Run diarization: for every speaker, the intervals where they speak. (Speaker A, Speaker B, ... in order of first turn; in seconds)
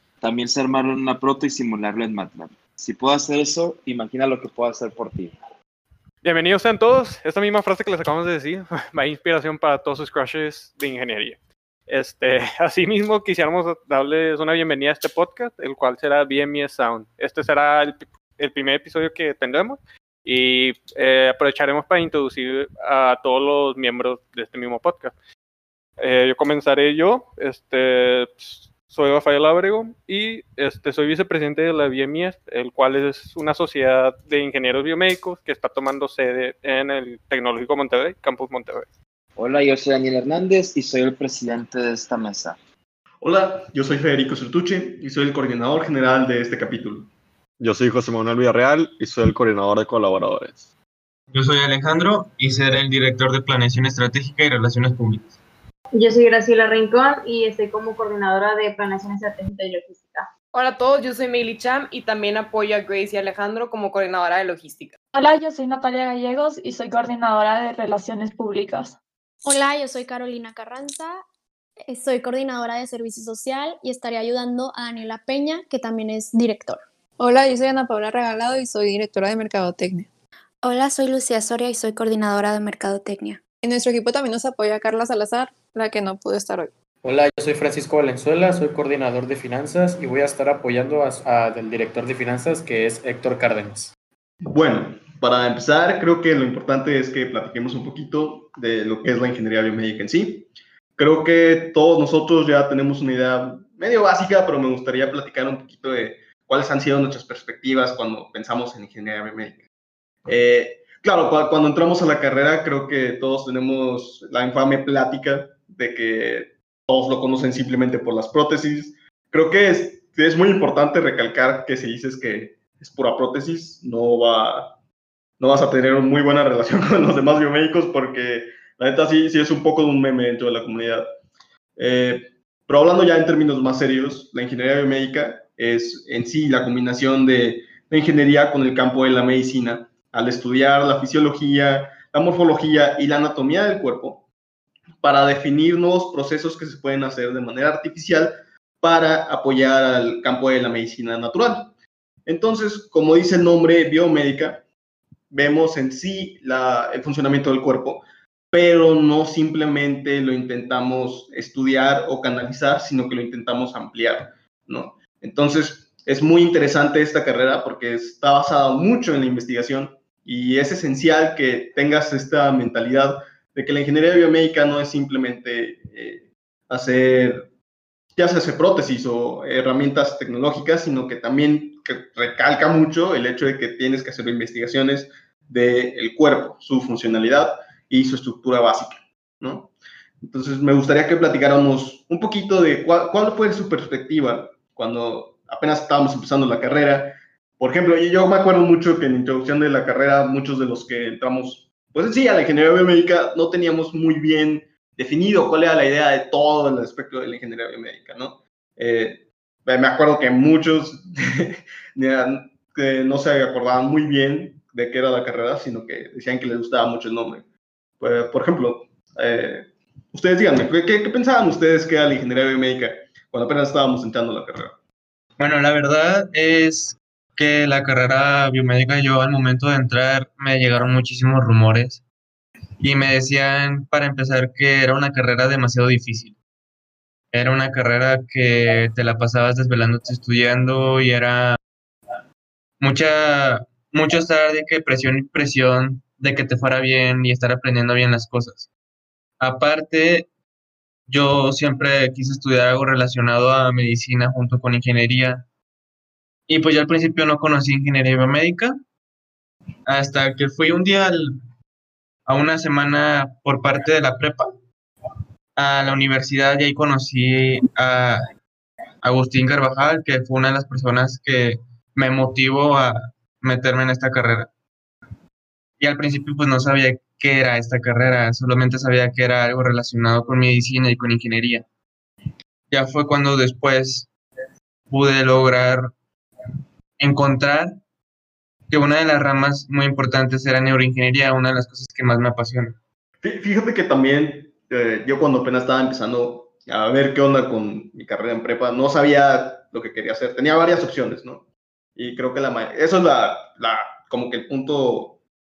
Speaker A: 0.2-5.3, 39.4-42.6
Speaker B: 6.2-25.1, 26.0-38.9
Speaker C: 43.2-47.1, 94.4-109.6, 110.2-124.7, 125.4-131.0, 131.8-144.2, 145.0-151.7, 152.2-154.6, 155.3-177.4, 178.2-217.4, 218.0-224.8, 293.2-305.2
Speaker D: 47.6-50.7
Speaker E: 51.3-55.4, 225.4-232.0, 232.8-236.4, 237.3-241.6, 242.8-248.7, 249.4-250.3, 251.1-255.4, 256.5-258.7, 259.9-261.3, 262.2-264.5, 265.6-268.2, 269.0-274.5, 275.8-281.6, 282.7-284.1, 284.9-285.9, 287.0-287.7, 288.7-292.8
Speaker F: 55.9-60.3
Speaker G: 60.5-65.0
Speaker H: 65.1-69.0
Speaker I: 69.4-71.2, 71.9-76.8
Speaker J: 77.2-80.1, 83.6-86.7
Speaker K: 80.6-83.4
Speaker L: 87.0-93.9